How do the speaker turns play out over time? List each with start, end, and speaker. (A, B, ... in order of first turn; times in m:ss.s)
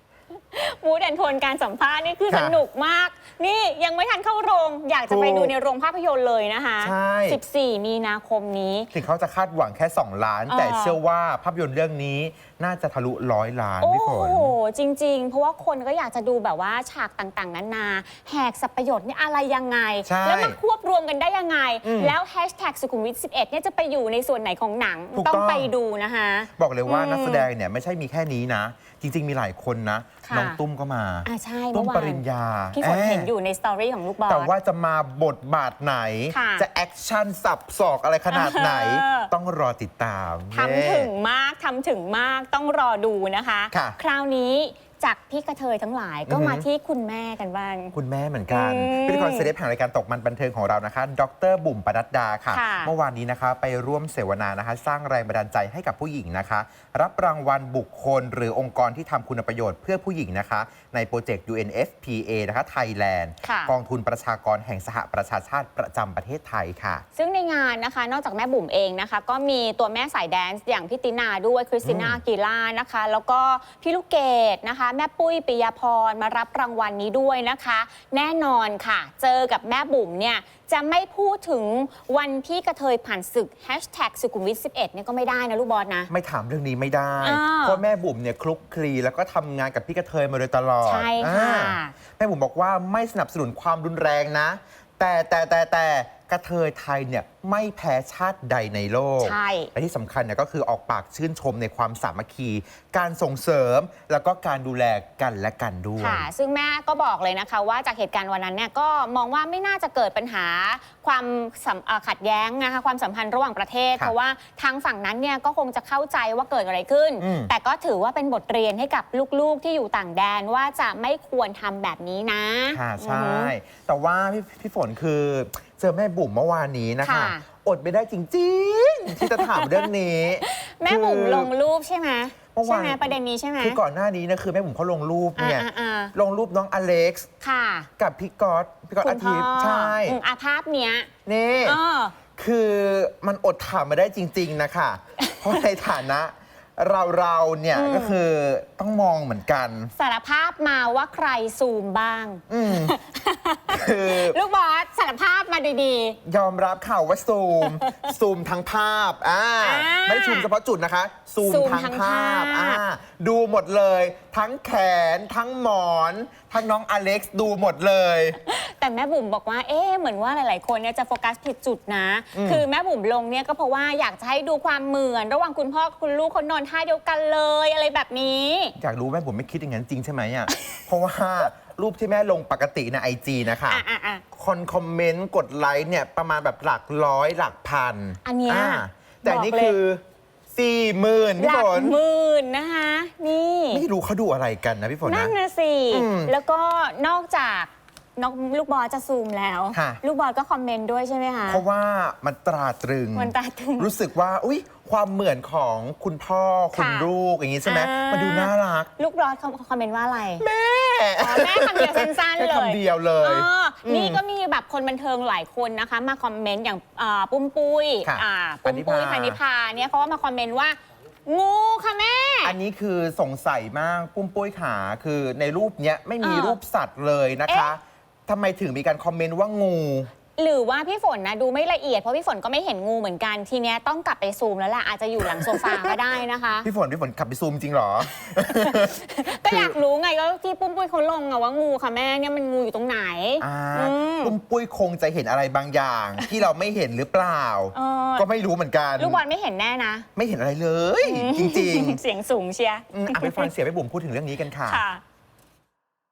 0:00.5-0:08.9 A
0:02.3-0:02.6 B
0:05.1-0:05.6 B
0:06.8-0:07.4 B
0:08.9-0:14.5 B
0:10.5-0:11.0 A
0:13.8-0:27.5 A
0:20.0-0:20.6 B
0:21.8-0:22.2 B
0:25.2-0:25.7 B
0:26.6-0:33.3 B
0:30.2-0:30.6 A
0:31.3-0:34.5 A
0:34.3-0:41.1 B
0:36.3-0:36.7 A
0:38.3-0:39.3 A
0:40.5-0:48.0 A
0:43.7-0:44.0 B
0:46.3-0:46.7 B
0:47.9-1:07.0 B
0:48.5-0:49.5 A
0:52.5-0:52.9 A
1:03.4-1:03.7 A
1:07.2-1:26.1 A
1:11.8-1:12.2 B
1:26.1-1:46.3 B
1:27.2-1:27.8 A
1:30.8-1:31.9 A
1:39.2-1:39.7 A
1:46.0-2:03.5 A
1:57.2-1:57.5 B
2:02.7-2:11.5 B
2:07.0-2:07.4 A
2:09.3-2:09.9 A
2:10.4-2:13.8 A
2:12.5-2:17.3 B
2:15.4-2:16.1 A
2:17.4-2:17.9 A
2:18.0-2:20.2 B
2:19.0-2:21.1 A
2:21.3-2:21.8 B
2:21.6-2:22.2 A
2:22.4-2:29.9 B
2:27.7-2:28.2 A
2:30.0-2:36.2 A
2:32.5-2:33.0 B
2:33.7-2:34.4 B
2:36.2-2:48.4 B
2:37.8-2:38.1 A
2:39.6-2:40.5 A
2:41.4-2:42.8 A
2:48.5-2:58.8 A
2:52.3-2:52.7 B
2:58.8-3:10.0 B
3:03.7-3:04.2 A
3:08.2-3:09.8 A
3:10.5-3:12.0 B
3:11.4-3:13.8 A
3:13.7-3:15.3 B
3:15.0-3:21.6 A
3:15.9-3:16.3 B
3:19.7-3:20.0 B
3:21.5-3:28.9 B
3:23.2-3:23.9 A
3:26.7-3:27.1 A
3:27.6-3:30.4 A
3:30.4-3:34.2 B
3:31.2-3:42.6 A
3:38.0-3:39.4 B
3:42.4-3:50.1 B
3:46.2-3:46.6 A
3:47.5-3:47.8 A
3:50.4-3:56.7 A
3:55.2-3:56.0 B
3:56.6-3:59.8 B
3:58.6-4:04.3 A
4:03.4-4:09.2 B
4:07.7-4:08.3 A
4:09.0-4:10.1 A
4:10.2-4:12.0 B
4:11.0-4:13.5 A
4:12.9-4:14.8 B
4:14.6-4:15.0 A